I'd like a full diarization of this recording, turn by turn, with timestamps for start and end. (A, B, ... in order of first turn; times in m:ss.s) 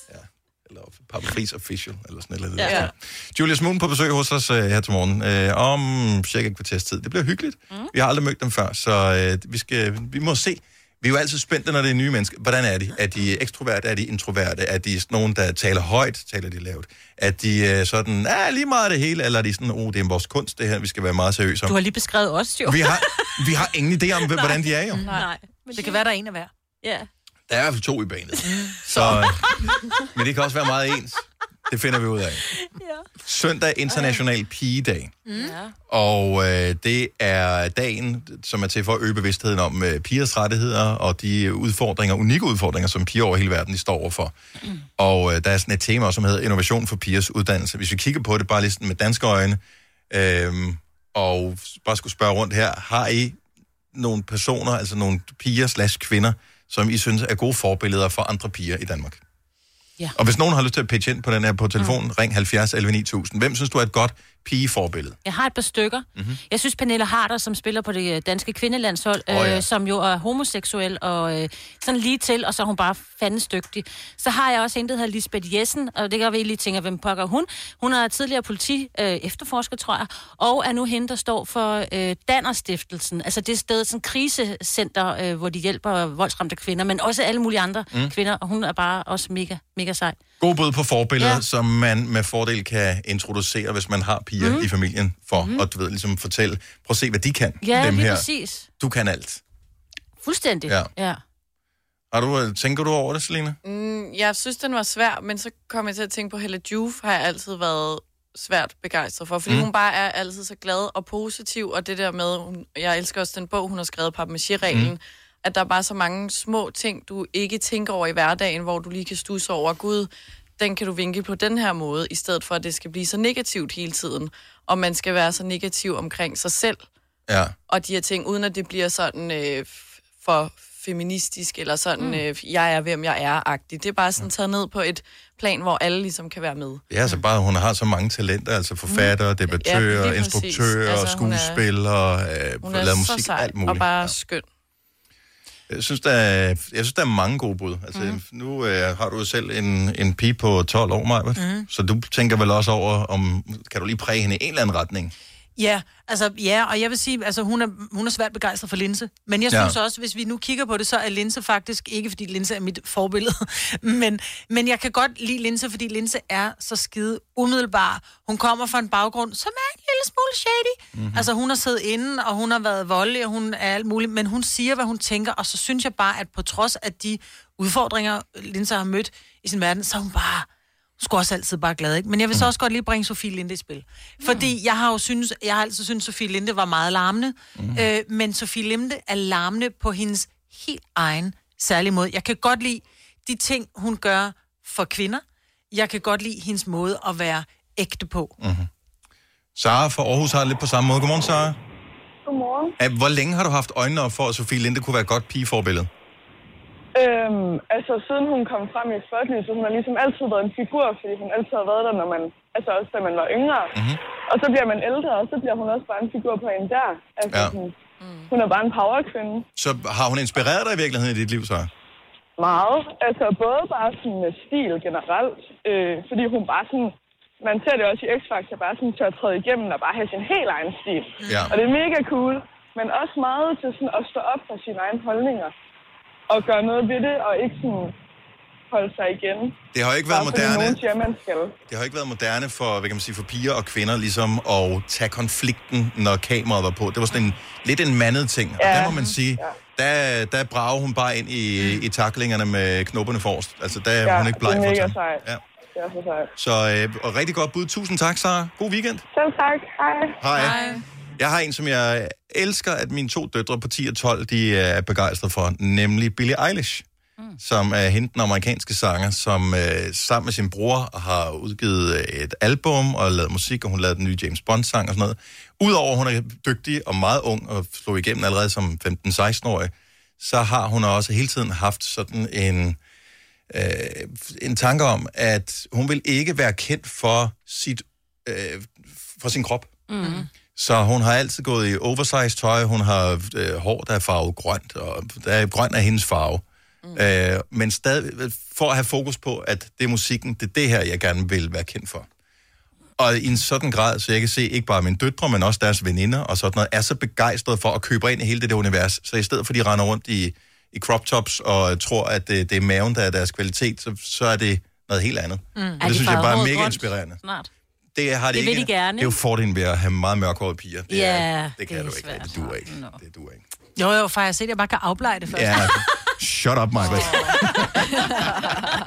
0:00.1-0:21.8 A
0:02.6-0:02.9 B
0:02.6-0:02.9 C
0:21.7-0:23.4 B
0:22.7-0:25.1 A
0:25.0-0:26.0 B
0:25.7-0:26.5 D
0:26.8-0:27.1 B
0:27.5-0:32.4 A
0:28.4-0:28.8 D
0:33.2-0:35.1 A
0:35.3-0:35.6 D
0:35.4-0:35.7 B
0:35.9-0:44.3 A
0:45.0-0:53.4 A
0:53.9-0:59.2 A
1:00.2-1:05.2 A
1:05.2-1:30.2 B
1:09.3-1:09.7 A
1:30.4-1:38.3 A
1:34.4-1:34.7 B
1:35.4-1:35.7 B
1:37.6-1:38.7 B
1:38.8-1:39.4 A
1:40.2-1:41.2 B
1:42.1-1:43.6 A
1:43.6-2:06.9 C
1:54.7-1:54.9 A
2:07.3-2:07.6 A
2:07.7-2:16.8 C
2:16.9-2:24.2 A
2:19.6-2:21.6 C
2:22.6-2:24.4 C
2:25.7-2:35.1 A
2:31.4-2:31.7 D
2:35.6-3:00.5 D
2:39.5-2:39.8 A
2:51.0-2:51.3 A
3:01.0-3:18.3 D
3:04.2-3:04.5 B
3:07.6-3:07.9 A
3:18.4-3:18.7 A
3:19.6-3:21.6 A
3:22.3-3:22.8 E
3:22.8-3:25.9 A
3:27.0-3:33.7 E
3:33.7-3:34.0 A
3:34.3-3:37.8 E
3:38.0-3:38.3 C
3:38.3-3:39.5 E
3:39.6-3:41.7 A
3:42.4-3:55.5 E
3:51.2-3:51.6 D
3:51.3-3:51.5 A
3:56.3-3:58.0 E
3:58.7-3:59.6 E
3:59.7-4:00.8 A
4:00.1-4:01.6 E
4:01.7-4:15.4 A
4:08.6-4:09.5 E
4:14.0-4:15.2 E
4:15.8-4:16.3 E
4:16.4-4:19.0 A
4:19.2-4:20.1 E
4:20.2-4:20.6 A
4:20.5-4:20.8 C
4:21.2-4:26.8 A
4:27.4-4:42.8 A
4:43.5-4:49.7 A
4:49.9-4:50.3 B
4:50.6-4:56.4 A
4:57.0-5:02.1 A
5:03.0-5:17.2 A
5:15.6-5:15.8 D
5:15.8-5:17.5 B
5:18.0-5:23.4 A
5:18.3-5:19.2 B
5:20.9-5:23.0 B
5:23.8-5:25.8 D
5:25.3-5:27.9 A